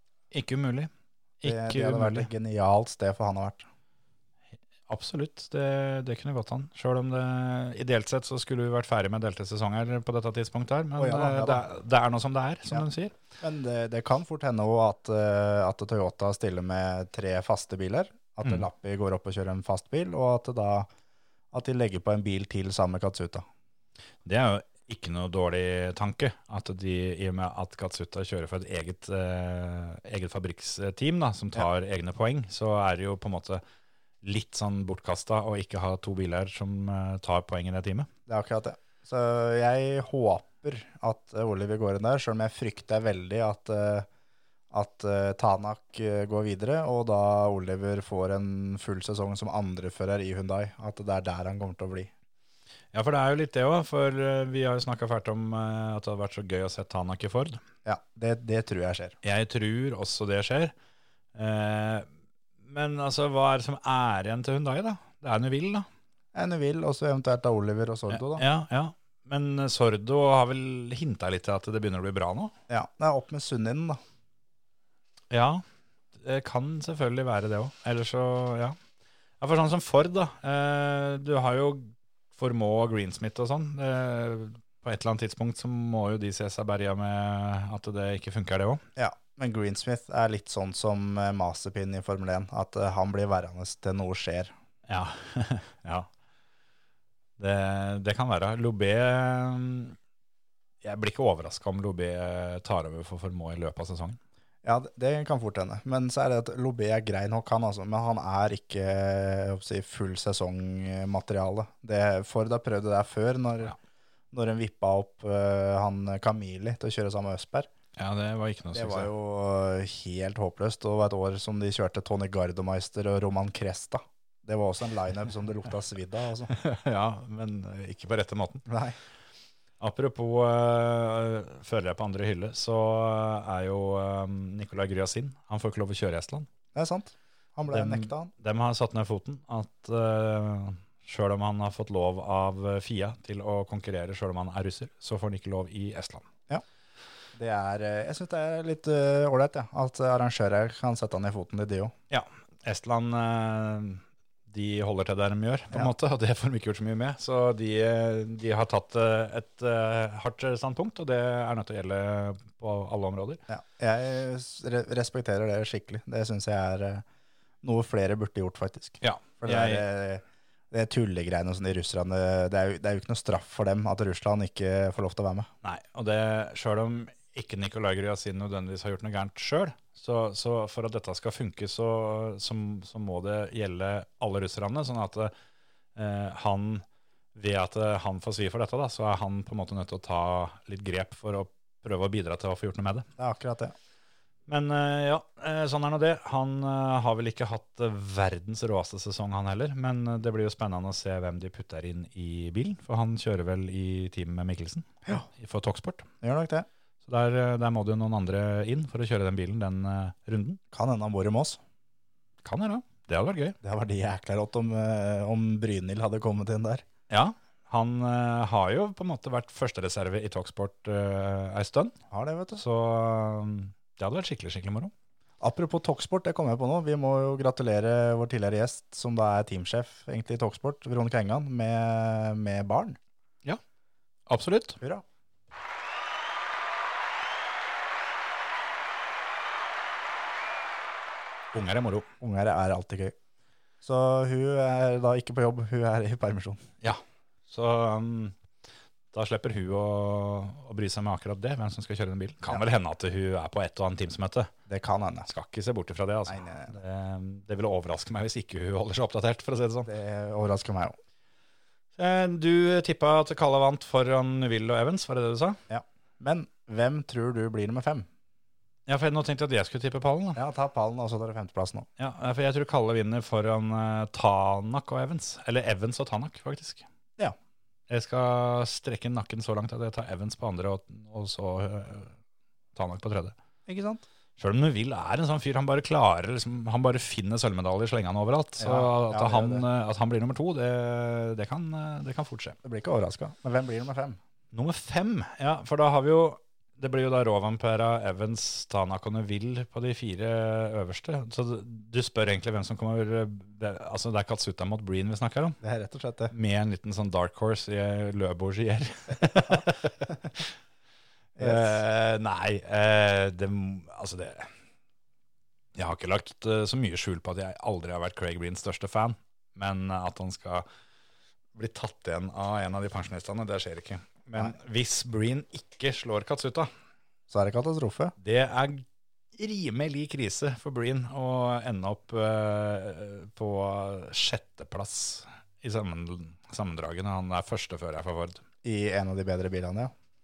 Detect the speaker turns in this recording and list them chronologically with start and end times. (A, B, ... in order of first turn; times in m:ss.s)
0:00.3-0:02.3 A
0:01.4-0:03.7 B
0:04.9-0:13.1 A
0:11.0-0:11.6 B
0:13.4-0:20.9 B
0:21.5-0:23.4 B
0:24.2-0:33.6 A
0:34.2-0:38.1 A
0:38.3-0:44.1 B
0:44.7-0:52.1 B
0:52.9-0:57.6 A
0:57.8-0:59.2 B
0:59.2-1:00.7 A
1:01.3-1:02.1 A
1:02.6-1:05.9 A
1:06.3-1:08.4 B
1:08.1-1:12.5 A
1:12.7-1:14.0 B
1:15.3-1:15.6 A
1:16.2-1:18.8 A
1:19.4-1:28.8 A
1:29.0-1:34.5 B
1:34.9-1:36.1 A
1:37.4-1:40.0 A
1:40.8-1:44.2 A
1:44.6-1:53.7 B
1:54.3-1:57.7 B
1:58.0-1:59.1 A
1:58.7-2:06.5 B
2:06.5-2:08.7 A
2:08.7-2:09.0 B
2:09.8-2:16.5 A
2:16.7-2:18.3 B
2:17.7-2:26.3 A
2:27.3-2:31.9 B
2:32.1-2:43.4 A
2:43.5-2:47.0 B
2:47.6-2:55.5 B
2:49.0-2:49.8 A
2:55.6-3:05.3 A
3:06.0-3:13.1 A
3:13.2-3:13.7 B
3:14.5-3:26.1 A
3:26.2-3:26.7 B
3:27.0-3:30.6 A
3:30.7-3:31.6 B
3:32.4-3:33.6 A
3:33.6-3:36.8 B
3:37.1-3:42.0 A
3:42.1-3:42.6 B
3:42.6-3:44.9 A
3:45.4-3:53.0 B
3:54.3-3:54.8 A
4:01.5-4:02.1 A
4:02.2-4:03.2 B
4:03.8-4:06.6 B
4:06.8-4:08.4 A
4:09.1-4:14.5 A
4:14.7-4:15.3 B
4:15.3-4:19.9 A
4:16.3-4:16.8 B
4:19.8-4:21.0 B
4:22.0-4:25.6 A
4:25.7-4:28.1 B
4:28.9-4:30.4 A
4:30.4-4:31.9 B
4:32.0-4:36.8 A
4:37.9-4:42.2 A
4:42.7-4:43.3 A
4:43.6-4:44.0 B
4:44.4-4:52.6 A
4:48.6-4:49.6 B
4:52.6-4:54.2 B
4:54.5-5:05.6 A
5:05.6-5:06.3 B
5:06.3-5:10.5 A
5:11.4-5:11.8 B
5:11.4-5:14.5 A
5:15.8-5:20.6 A
5:21.5-5:26.7 A
5:27.3-5:28.1 B
5:28.2-5:38.4 A
5:38.6-5:39.9 B